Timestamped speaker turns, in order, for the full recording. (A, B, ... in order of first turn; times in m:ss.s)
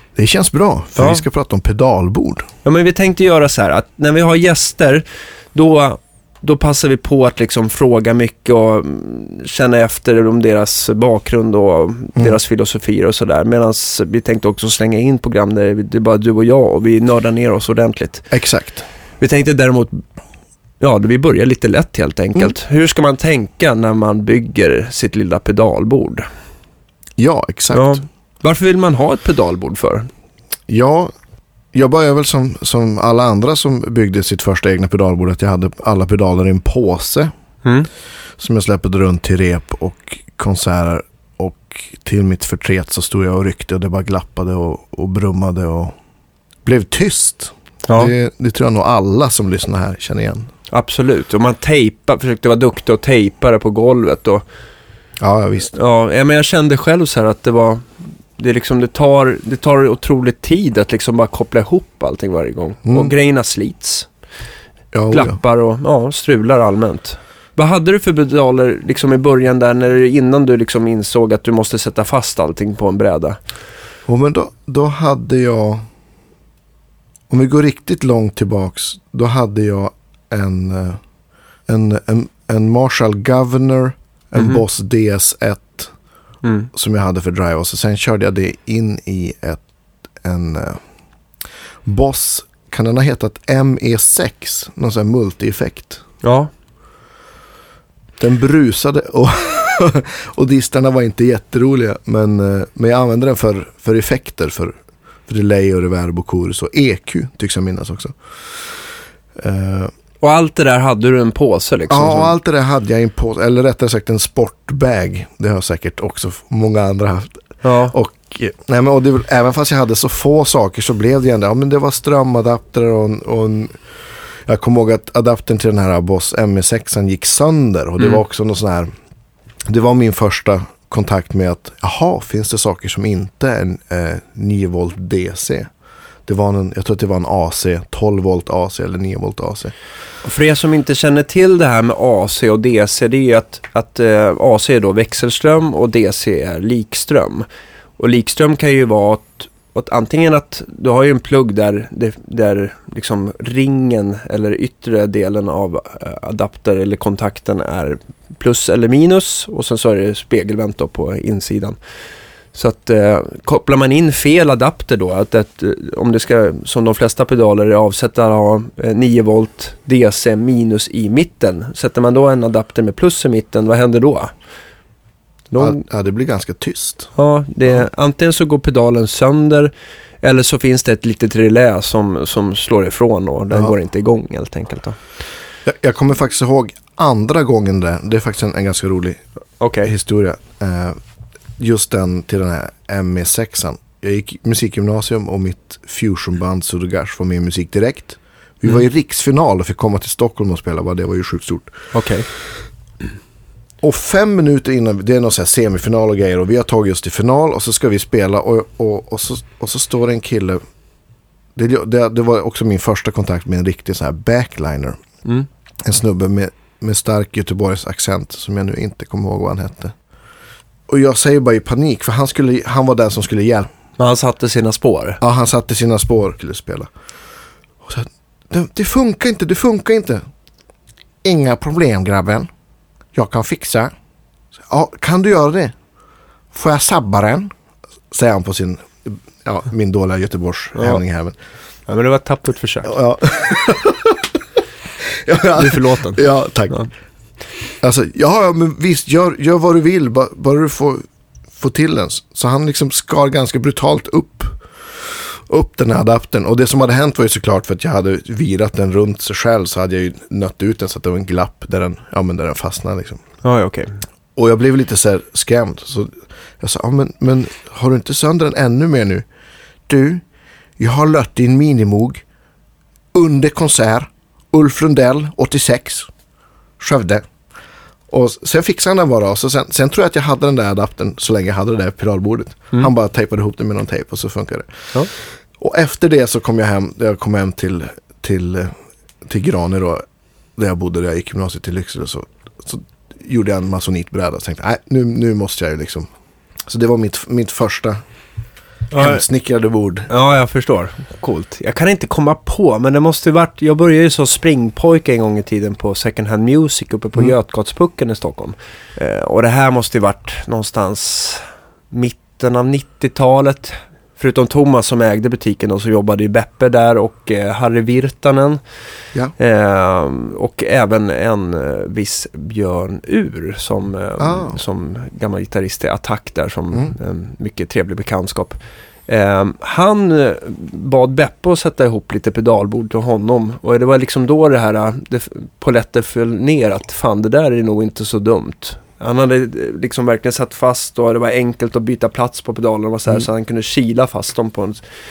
0:00.2-0:02.5 A
0:01.0-0:01.2 B
0:02.6-0:18.3 B
0:18.3-0:18.8 A
0:19.2-0:20.0 B
0:20.8-0:26.3 B
0:27.2-0:28.0 A
0:27.7-0:30.1 B
0:30.7-0:31.1 A
0:31.7-0:37.3 A
0:38.4-0:46.0 A
0:46.6-0:50.5 A
0:47.9-0:48.1 B
0:50.7-0:54.4 B
0:55.2-0:55.7 A
0:55.7-0:57.9 B
0:58.4-1:04.1 B
1:02.9-1:03.1 A
1:04.9-1:05.4 A
1:05.1-1:13.4 B
1:14.1-1:15.9 A
1:17.3-1:21.0 A
1:21.7-1:25.9 A
1:24.4-1:24.6 B
1:26.4-1:26.7 B
1:26.7-1:29.6 A
1:30.2-1:30.8 A
1:31.8-1:36.0 A
1:36.2-1:36.5 B
1:38.2-1:48.2 A
1:49.4-1:49.9 A
1:50.2-1:52.4 B
1:51.9-2:03.8 A
1:57.6-1:57.9 B
2:04.5-2:08.9 A
2:08.0-2:08.2 B
2:09.7-2:15.7 A
2:16.3-2:19.7 A
2:20.2-2:27.5 B
2:28.0-2:41.8 B
2:42.5-2:54.3 B
2:55.5-2:55.8 B
2:55.6-2:57.1 A
2:57.2-3:05.0 B
3:05.7-3:09.2 A
3:09.6-3:09.9 B
3:09.8-3:11.0 A
3:11.6-3:21.8 A
3:21.9-3:22.3 B
3:23.8-3:30.6 A
3:31.6-3:35.0 A
3:35.8-3:40.0 A
3:40.9-3:43.7 A
3:44.0-3:45.2 B
3:45.2-3:46.9 A
3:47.8-3:50.2 A
3:51.2-3:52.5 A
3:53.1-3:53.9 A
3:54.7-3:55.7 A
3:56.5-3:57.5 A
3:58.1-4:01.4 A
4:00.8-4:01.0 B
4:01.9-4:02.9 B
4:02.8-4:04.4 A
4:05.0-4:06.8 A
4:05.6-4:06.9 B
4:07.8-4:11.0 A
4:11.6-4:23.2 A
4:23.4-4:24.0 B
4:24.4-4:29.2 A
4:29.9-4:30.2 A
4:30.8-4:32.2 A
4:33.1-4:36.1 A
4:36.8-4:37.2 A
4:38.1-4:44.9 A
4:45.6-4:50.0 A
4:50.6-4:56.1 A
4:56.7-4:58.0 A
4:58.9-4:59.2 B
4:59.0-5:00.1 A
5:00.1-5:18.6 B
5:19.4-5:44.8 B
5:24.2-5:24.6 A